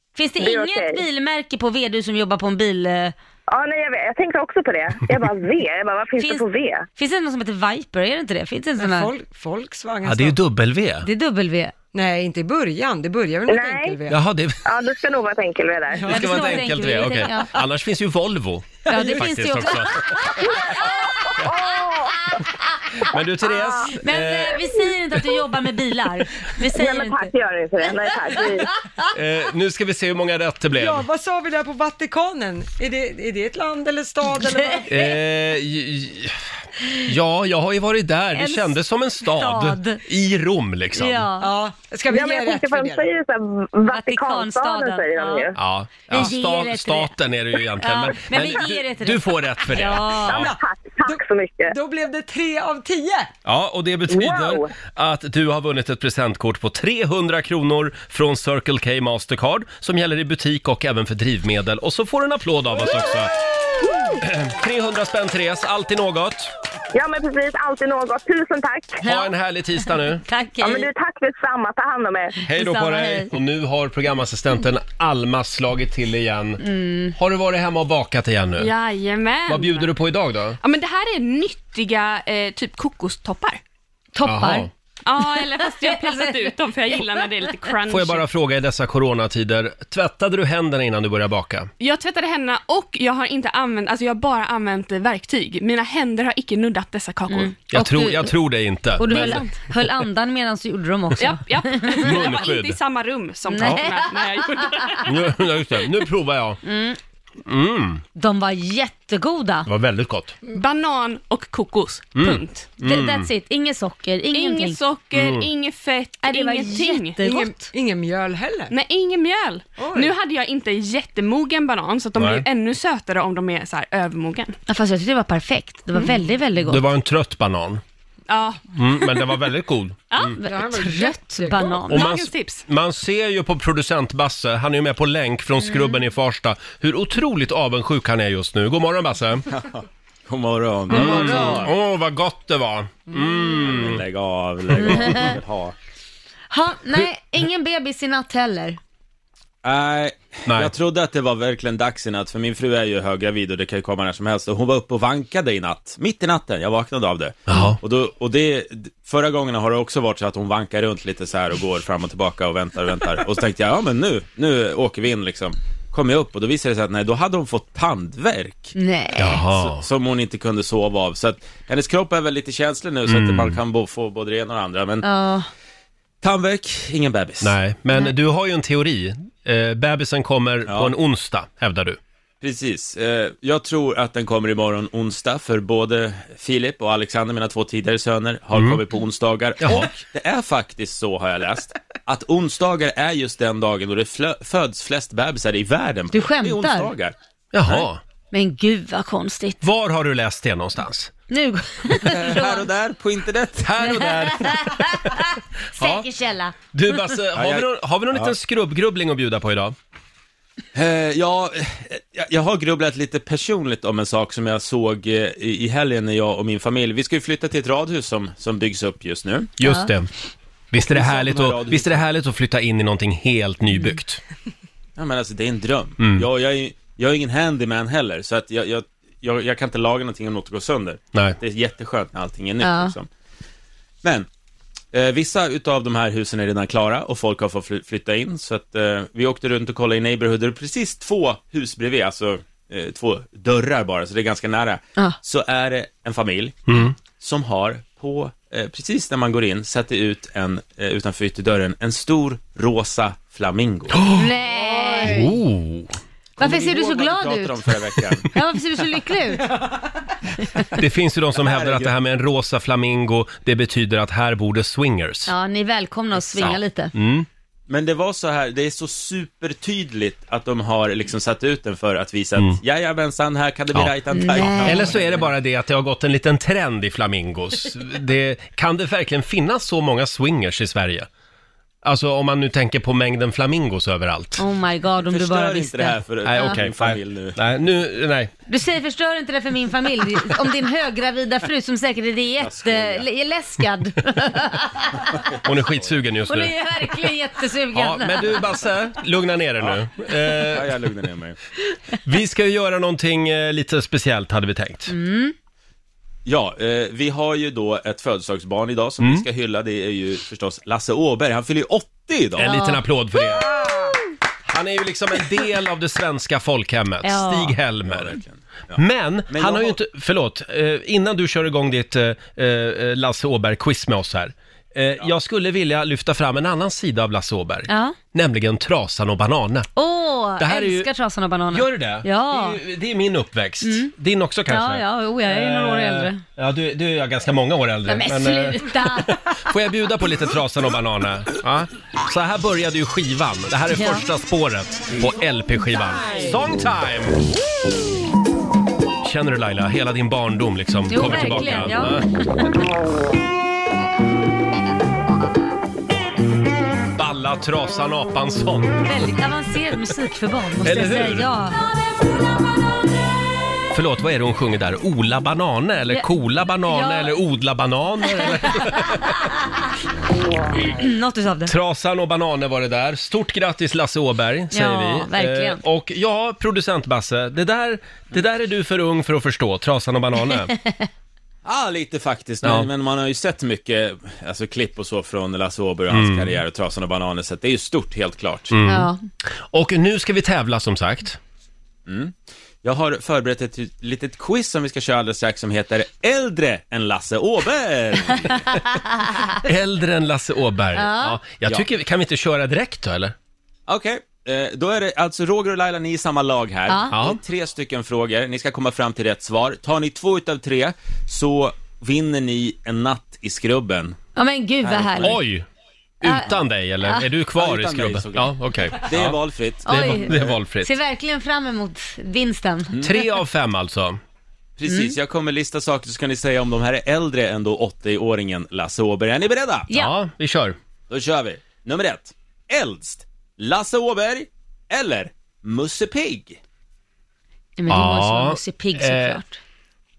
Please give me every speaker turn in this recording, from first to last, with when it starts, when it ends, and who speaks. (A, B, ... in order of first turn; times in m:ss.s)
0:00.2-0:03.1 A
0:00.4-0:01.0 B
0:03.5-0:06.8 B
0:06.2-0:09.1 A
0:08.8-0:10.4 C
0:10.0-0:11.1 D
0:11.0-0:11.7 A
0:11.9-0:14.2 C
0:13.5-0:14.0 B
0:14.1-0:14.6 D
0:14.6-0:16.1 B
0:16.0-0:16.5 C
0:16.0-0:20.2 D
0:16.1-0:17.6 A
0:18.9-0:21.6 A
0:20.5-0:22.4 B
0:22.3-0:23.0 A
0:23.0-0:24.6 D
0:24.0-0:27.3 A
0:26.7-0:28.7 B
0:29.1-0:31.1 D
0:30.8-0:35.1 C
0:34.9-0:36.5 D
0:37.0-0:41.3 D
0:38.4-0:40.0 A
0:41.0-0:41.5 A
0:41.4-0:43.1 C
0:42.1-0:45.6 B
0:43.9-0:45.5 A
0:45.6-0:50.5 D
0:46.1-0:47.1 A
0:47.8-0:50.4 A
0:50.2-0:53.3 C
0:50.3-0:51.7 B
0:53.4-1:03.3 D
0:54.1-0:54.7 B
1:04.2-1:06.5 D
1:06.9-1:09.0 B
1:09.0-1:10.2 D
1:09.0-1:09.3 A
1:09.9-1:10.9 A
1:10.6-1:12.4 B
1:12.5-1:16.6 D
1:12.5-1:13.3 A
1:16.6-1:17.2 A
1:17.2-1:18.7 D
1:18.6-1:19.9 E
1:19.5-1:20.6 D
1:20.6-1:23.6 E
1:24.2-1:24.7 A
1:24.2-1:24.7 D
1:25.1-1:28.3 E
1:25.3-1:27.2 A
1:27.9-1:31.7 D
1:31.8-1:37.6 E
1:37.3-1:38.3 A
1:37.7-1:39.4 D
1:39.0-1:42.2 A
1:41.2-1:45.2 E
1:42.0-1:42.8 D
1:43.5-1:45.0 A
1:45.0-1:46.6 D
1:46.6-1:47.0 A
1:47.4-1:48.0 D
1:48.2-1:49.7 A
1:49.7-1:50.4 D
1:50.5-1:52.7 E
1:52.2-1:53.3 D
1:52.8-1:54.8 A
1:54.3-1:57.2 E
1:55.1-1:55.5 D
1:56.2-1:57.6 A
1:57.2-1:58.7 C
1:58.7-2:04.6 E
1:59.8-2:00.1 C
2:02.2-2:02.5 D
2:04.7-2:06.8 A
2:06.6-2:07.8 D
2:08.3-2:09.3 E
2:08.7-2:10.4 D
2:10.1-2:10.4 E
2:10.4-2:12.1 A
2:10.4-2:11.6 C
2:11.5-2:12.6 E
2:11.9-2:19.5 D
2:19.5-2:21.7 F
2:20.9-2:24.0 D
2:21.1-2:21.4 A
2:23.6-2:25.7 F
2:24.8-2:25.3 D
2:24.9-2:25.3 A
2:26.5-2:28.8 A
2:29.6-2:48.7 F
2:30.5-2:30.7 D
2:37.5-2:37.8 D
2:48.8-2:49.4 A
2:49.2-2:49.8 D
2:49.5-2:55.0 F
2:53.1-2:53.6 D
2:55.0-2:55.5 A
2:56.2-2:57.6 F
2:57.4-3:02.0 D
3:00.7-3:00.9 F
3:02.4-3:17.1 F
3:08.5-3:08.8 D
3:09.6-3:09.9 D
3:16.1-3:16.9 A
3:17.5-3:18.0 D
3:18.3-3:19.6 A
3:19.6-3:21.1 D
3:21.3-3:22.7 A
3:22.0-3:23.7 F
3:23.6-3:26.1 D
3:23.8-3:27.0 A
3:26.7-3:29.8 D
3:27.4-3:28.3 F
3:30.7-3:39.5 F
3:39.6-3:40.1 D
3:39.6-3:39.9 A
3:40.7-3:44.2 D
3:40.9-3:42.0 F
3:45.0-3:53.1 F
3:46.0-3:46.3 D
3:52.6-3:52.9 A
3:54.9-4:14.0 F
4:06.7-4:07.0 D
4:13.9-4:14.3 D
4:14.1-4:15.4 A
4:14.6-4:15.1 C
4:15.0-4:16.0 D
4:16.4-4:18.3 F
4:16.4-4:17.6 A
4:18.3-4:19.6 A
4:20.7-4:25.3 D
4:21.4-4:21.9 F
4:25.3-4:26.9 A
4:26.4-4:27.3 D
4:27.7-4:35.3 F
4:33.7-4:41.1 D
4:34.1-4:34.9 A
4:41.8-4:44.4 D
4:44.4-4:46.6 A
4:45.0-4:47.4 F
4:46.2-4:48.3 D
4:48.5-4:55.3 A
4:52.4-4:53.1 F
4:55.4-4:56.5 D
4:56.3-4:58.4 A
4:57.7-5:00.9 D
5:00.3-5:01.4 F
5:02.0-5:04.9 D
5:04.9-5:05.4 A
5:06.3-5:12.5 F
5:09.0-5:09.3 D
5:12.4-5:13.7 D
5:12.4-5:12.8 A
5:14.5-5:18.2 D
5:17.0-5:17.6 A
5:17.8-5:19.8 F
5:18.8-5:29.7 D
5:27.7-5:28.0 A
5:29.8-5:32.6 A
5:30.4-5:30.9 D
5:31.5-5:47.3 D
5:33.6-5:33.9 A
5:34.5-5:36.2 A
5:37.9-5:39.4 A
5:43.7-5:44.1 A
5:49.0-5:52.1 D
5:50.9-5:52.5 A
5:57.0-5:58.8 D
5:58.8-6:01.6 A
6:00.6-6:01.3 D
6:03.7-6:09.3 D
6:06.7-6:07.2 A
6:08.2-6:09.2 A
6:10.6-6:11.5 A
6:11.5-6:20.5 D
6:14.5-6:15.6 A
6:20.6-6:20.9 A
6:21.4-6:28.6 F
6:22.4-6:22.7 D
6:25.9-6:26.4 D
6:28.5-6:31.2 D
6:28.7-6:29.0 A
6:31.9-6:38.4 F
6:39.4-6:43.2 D
6:40.8-6:41.2 A
6:43.7-6:54.0 F
6:46.9-6:47.2 D
6:54.2-6:55.2 A
6:54.6-6:55.2 F
6:55.0-6:55.5 D
6:56.0-7:00.7 D
6:56.0-6:57.1 A
6:57.4-7:00.4 F
6:59.7-7:02.7 A
7:02.8-7:04.0 D
7:04.6-7:09.7 F
7:04.7-7:04.9 A
7:09.7-7:09.9 A
7:09.7-7:10.6 D
7:10.9-7:16.4 F
7:17.6-7:19.4 A
7:17.7-7:19.2 D